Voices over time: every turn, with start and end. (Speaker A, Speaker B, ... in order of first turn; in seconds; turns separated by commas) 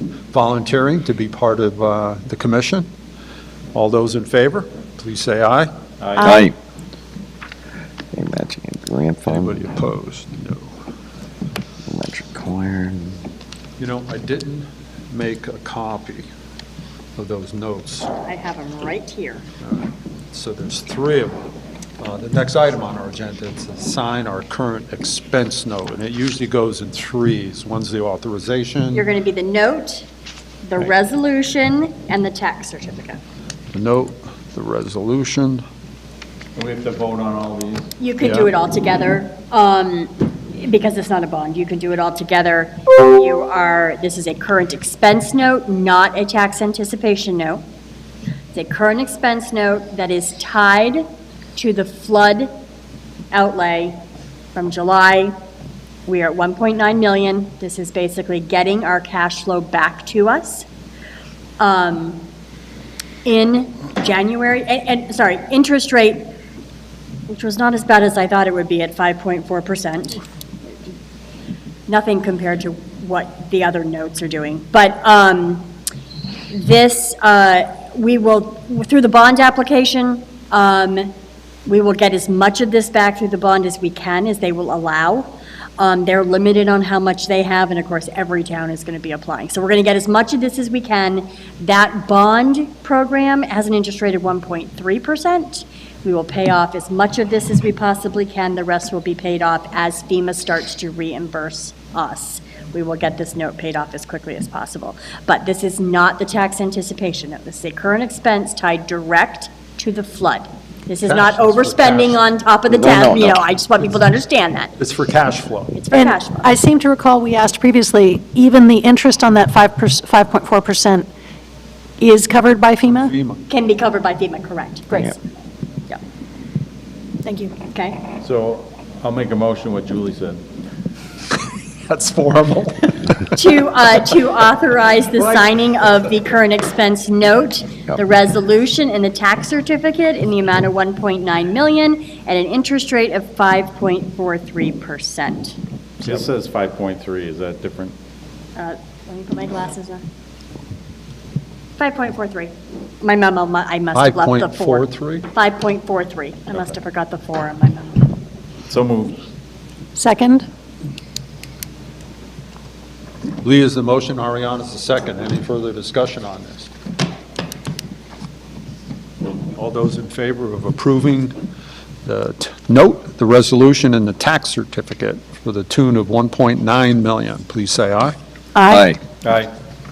Speaker A: 0.3-2.9, Speaker A: 3.7-5.7, Speaker B: 6.0-6.4, Speaker C: 6.2-6.5, Speaker D: 6.2-6.5, Speaker D: 8.1-9.6, Speaker A: 9.3-10.7, Speaker D: 11.9-13.2, Speaker A: 13.8-16.3, Speaker A: 17.2-18.1, Speaker E: 18.2-19.4, Speaker A: 19.6-21.5, Speaker A: 22.0-29.1, Speaker E: 28.9-30.1, Speaker E: 30.6-33.2, Speaker A: 33.7-35.6, Speaker B: 36.6-37.9, Speaker E: 38.0-47.6, Speaker A: 38.2-38.5, Speaker E: 48.5-51.0, Speaker E: 51.6-52.5, Speaker E: 53.3-54.0, Speaker E: 54.5-55.3, Speaker E: 56.1-60.7, Speaker E: 61.6-62.2, Speaker E: 63.2-66.3, Speaker E: 67.3-70.2, Speaker E: 71.9-75.7, Speaker E: 76.5-81.1, Speaker E: 81.7-114.8, Speaker A: 111.0-112.2, Speaker D: 112.7-113.4, Speaker A: 114.8-115.8, Speaker E: 115.8-116.5, Speaker C: 115.9-121.1, Speaker C: 122.0-123.1, Speaker A: 122.8-123.5, Speaker E: 123.5-125.3, Speaker C: 127.3-127.5, Speaker E: 127.5-128.1, Speaker B: 128.2-130.4, Speaker A: 131.8-133.4, Speaker E: 133.3-145.6, Speaker A: 135.2-135.5, Speaker B: 146.0-147.9, Speaker E: 148.6-150.0, Speaker E: 151.8-158.1, Speaker A: 153.9-155.3, Speaker B: 158.7-159.2, Speaker C: 160.0-160.5, Speaker A: 163.4-166.7, Speaker A: 169.5-171.4, Speaker A: 172.0-178.2, Speaker C: 178.6-178.8, Speaker D: 178.7-179.0, Speaker B: 179.2-179.5